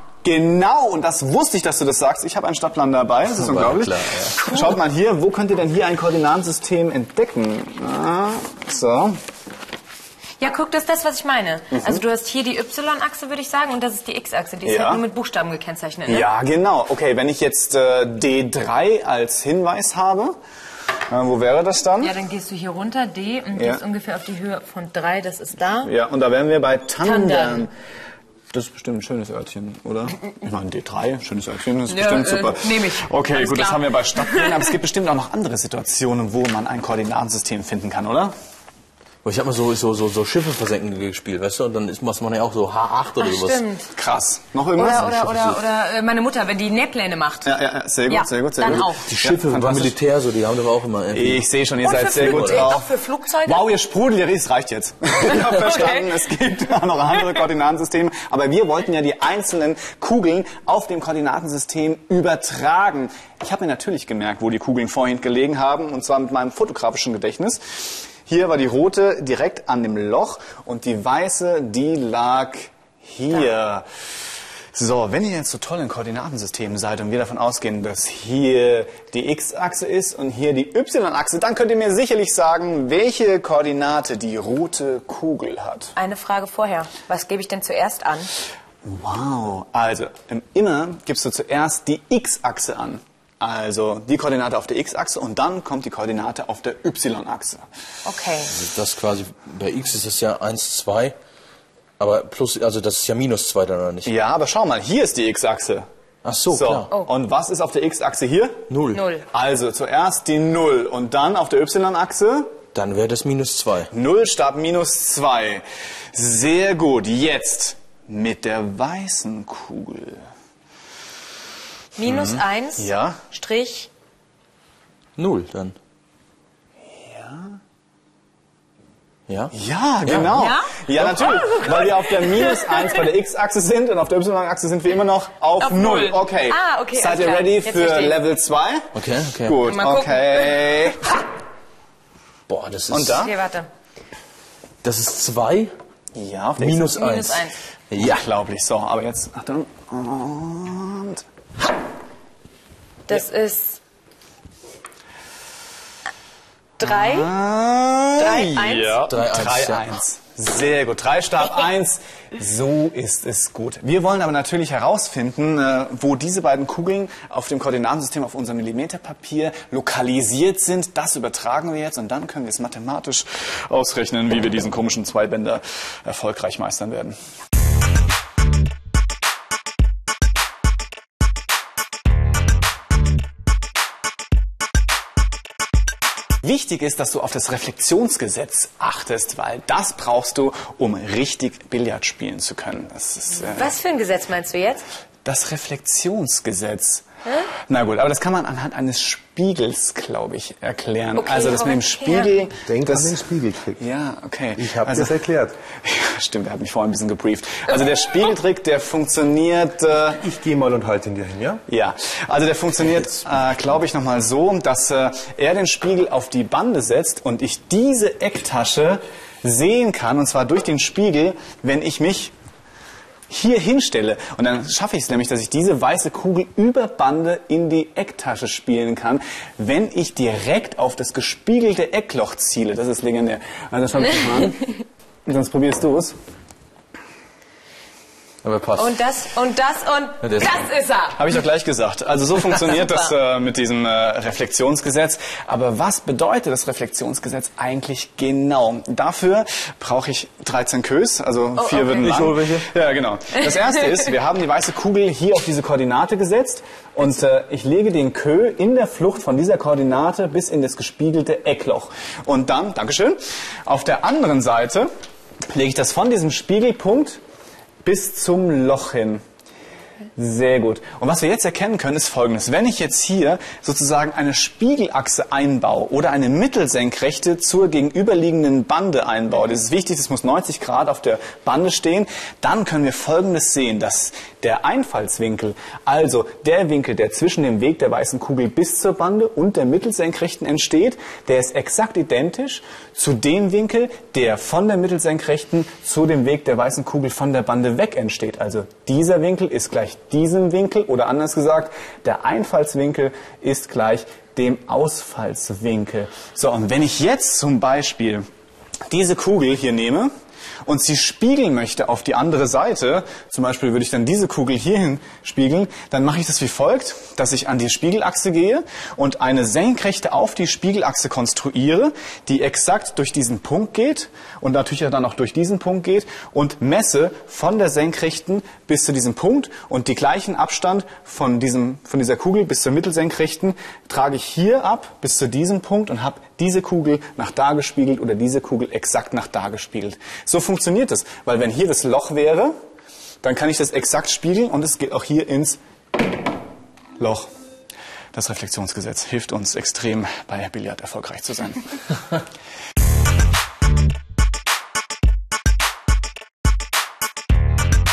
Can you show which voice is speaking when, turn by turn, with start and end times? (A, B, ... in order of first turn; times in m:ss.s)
0:00.2-0:09.2 A
0:03.3-0:04.5 B
0:10.4-0:16.3 C
0:11.7-0:12.0 A
0:14.6-0:15.0 A
0:16.1-0:20.3 A
0:21.1-0:22.1 A
0:22.0-0:25.9 C
0:23.5-0:23.8 A
0:25.8-0:27.7 A
0:27.0-0:27.7 C
0:28.5-0:38.3 A
0:31.9-0:34.7 C
0:39.2-0:43.6 B
0:43.2-0:43.9 C
0:43.9-0:45.5 A
0:44.8-0:47.5 C
0:45.0-0:45.4 B
0:47.4-0:50.0 A
0:48.1-0:49.0 C
0:48.6-0:51.4 B
0:51.1-0:52.9 A
0:51.8-0:53.7 C
0:52.0-0:52.7 B
0:53.4-1:13.8 A
0:55.2-0:56.1 C
1:14.7-1:25.9 A
1:26.0-1:28.3 C
1:28.8-1:37.6 A
1:38.0-1:38.5 C
1:38.5-1:41.1 B
1:42.0-1:44.1 B
1:44.0-1:45.8 A
1:46.2-1:46.9 B
1:46.5-1:48.6 A
1:48.7-1:49.0 B
1:48.9-1:49.2 C
1:49.3-1:52.6 A
1:52.7-1:53.9 B
1:53.9-2:00.2 A
2:02.0-2:03.9 C
2:02.0-2:03.2 A
2:05.2-2:05.8 B
2:07.0-2:07.6 A
2:09.3-2:09.5 B
2:09.5-2:18.9 A
2:10.3-2:12.8 C
2:15.6-2:18.2 C
2:18.9-2:19.6 B
2:19.4-2:21.2 A
2:19.6-2:20.6 C
2:22.5-2:23.2 B
2:22.9-2:23.3 A
2:23.1-2:23.7 C
2:24.8-2:25.7 B
2:26.1-2:27.0 A
2:26.6-2:28.2 B
2:26.9-2:27.5 C
2:28.0-2:31.2 A
2:33.1-2:33.8 C
2:36.8-2:37.3 C
2:36.8-2:57.2 A
2:38.2-2:39.0 C
2:39.1-2:39.8 B
3:06.4-3:13.7 A
3:13.3-3:14.8 C
3:15.2-3:17.0 A
3:17.2-3:17.5 C
3:17.7-3:23.2 A
3:21.2-3:22.3 C
3:22.7-3:23.8 D
3:23.8-3:25.2 A
3:24.6-3:25.6 D
3:25.8-3:30.2 A
3:30.2-3:31.6 D
3:31.7-3:42.3 A
3:43.3-3:56.1 A
3:58.4-3:59.0 B
3:58.8-4:01.2 C
4:00.2-4:00.6 B
4:01.2-4:24.9 A
4:02.6-4:03.1 C
4:11.7-4:12.1 C
4:12.0-4:12.7 B
4:25.5-4:27.2 A
4:27.8-4:29.2 A
4:30.2-5:08.2 A
5:08.9-5:10.1 A
5:10.6-5:42.5 A
5:43.2-5:45.6 A
5:47.0-5:47.3 A
5:48.1-5:51.6 A